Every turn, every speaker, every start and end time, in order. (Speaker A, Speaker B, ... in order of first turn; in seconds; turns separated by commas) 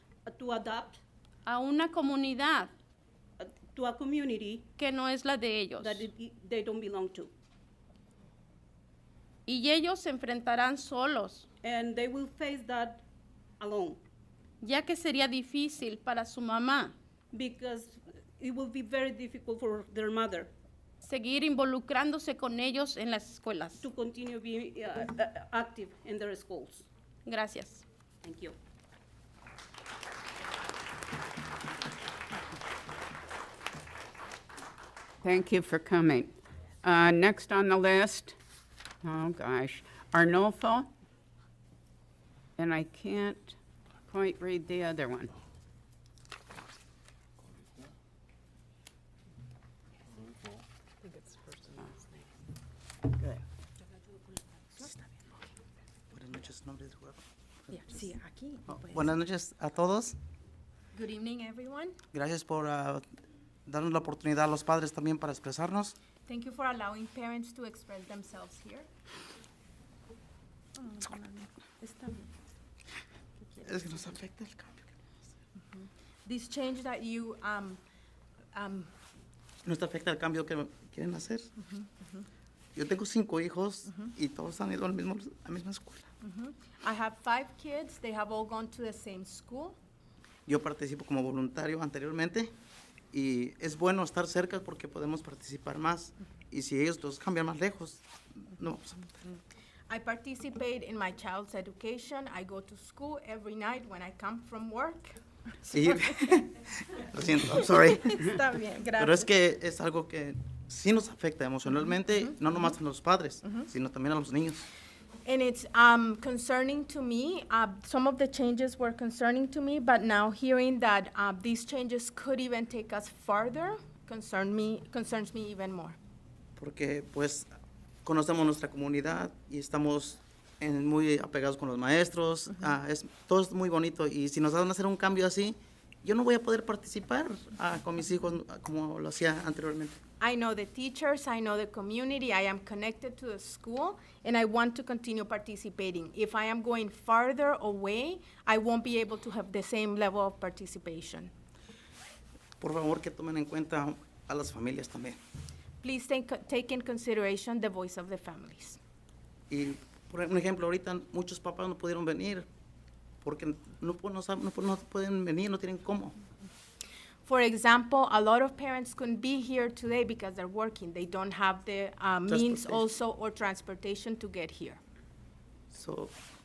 Speaker A: 0.3-1.0, Speaker B: 1.4-2.7, Speaker A: 3.7-4.7, Speaker B: 4.8-6.1, Speaker A: 5.8-7.3, Speaker B: 9.4-11.5, Speaker A: 11.6-13.0, Speaker A: 13.6-14.0, Speaker B: 14.6-16.9, Speaker A: 17.3-20.5, Speaker B: 21.0-23.9, Speaker A: 23.8-26.9, Speaker B: 27.2-27.8, Speaker A: 28.2-28.6, Speaker C: 35.2-38.3, Speaker C: 39.0-40.9, Speaker C: 42.6-43.5, Speaker C: 44.1-45.3, Speaker D: 56.1-57.2, Speaker E: 57.7-59.1, Speaker D: 58.7-60.2, Speaker E: 60.9-62.0, Speaker D: 62.1-63.0, Speaker D: 63.7-65.9, Speaker E: 66.2-68.9, Speaker E: 70.8-72.3, Speaker D: 73.6-74.9, Speaker E: 75.8-77.8, Speaker E: 78.5-78.9, Speaker D: 79.6-81.5, Speaker D: 82.7-86.1, Speaker E: 86.2-89.8, Speaker D: 90.5-92.5, Speaker D: 93.1-98.0, Speaker D: 98.5-99.2, Speaker E: 99.9-106.4, Speaker D: 105.7-108.3, Speaker E: 107.5-109.3, Speaker D: 109.0-114.7, Speaker E: 115.2-126.0, Speaker D: 126.6-127.5, Speaker D: 128.0-140.0, Speaker E: 140.2-151.3, Speaker D: 152.6-155.2, Speaker E: 155.8-158.8, Speaker D: 159.5-162.5, Speaker D: 163.2-166.1, Speaker E: 167.2-174.8, Speaker D: 172.3-172.8, Speaker D: 175.7-176.1